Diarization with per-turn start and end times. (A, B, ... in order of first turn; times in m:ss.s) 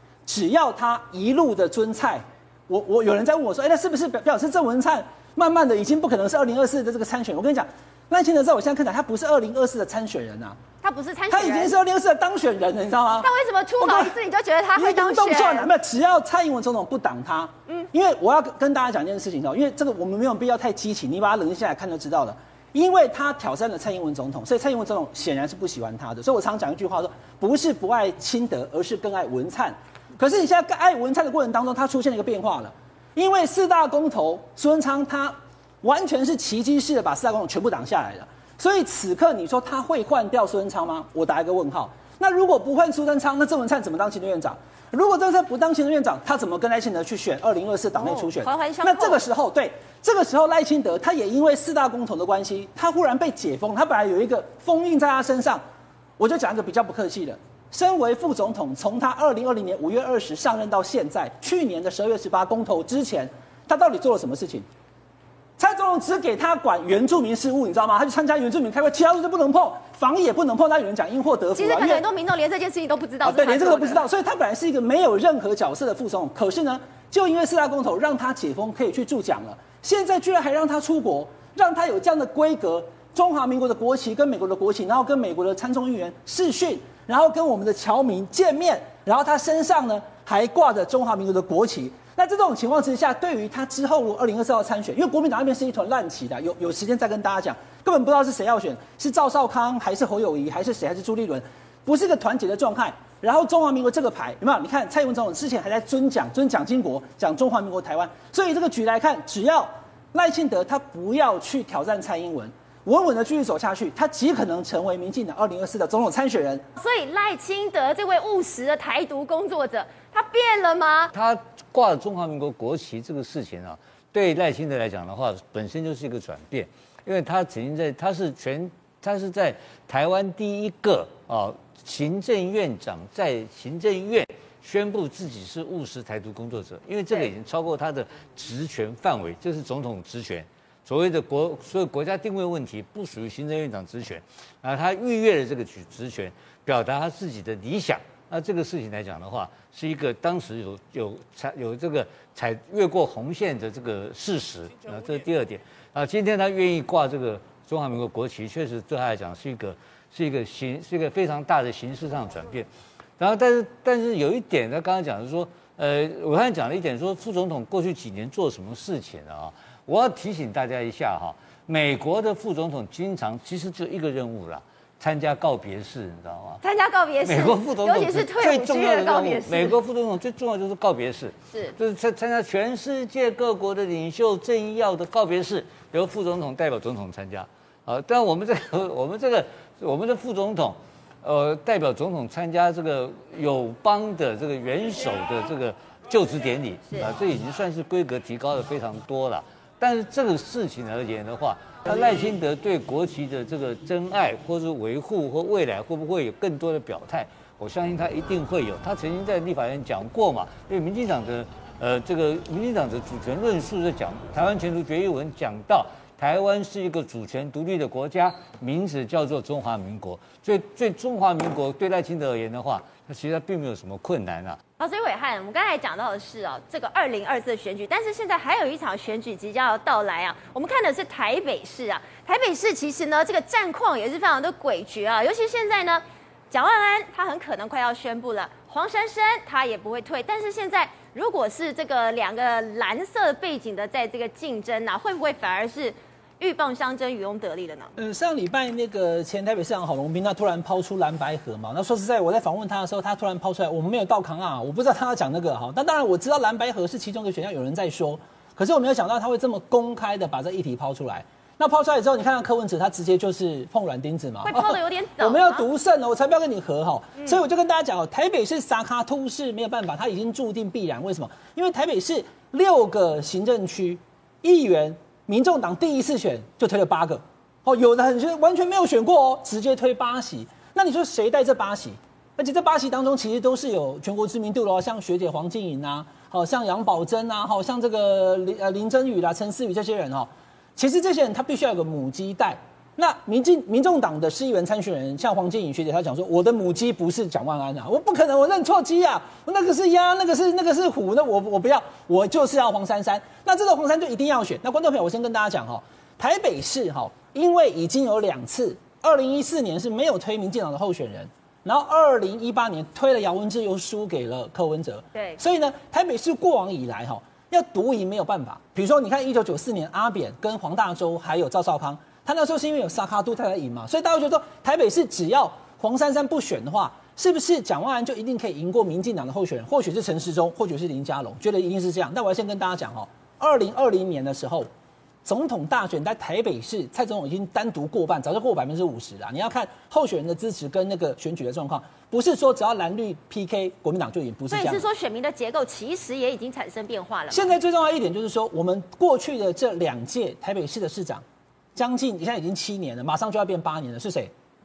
0:00.3-0:10.6 A
0:10.8-0:11.7 B
0:11.3-0:13.3 A
0:13.2-0:15.7 B
0:13.8-0:14.1 A
0:14.8-0:55.6 A
0:48.0-0:49.2 B
0:56.2-1:04.7 A
1:05.6-1:12.0 A
1:11.6-1:14.0 B
1:13.2-1:56.6 A
1:56.8-2:01.1 B
2:01.1-2:42.7 C
2:43.2-2:56.6 C
2:56.6-2:59.8 B
2:57.2-3:44.6 C
3:44.8-4:07.9 B
4:08.0-5:34.7 A
4:24.4-4:25.6 B
5:35.2-5:44.8 A
5:44.5-5:47.5 B
5:47.3-5:51.2 A
5:51.8-5:54.3 A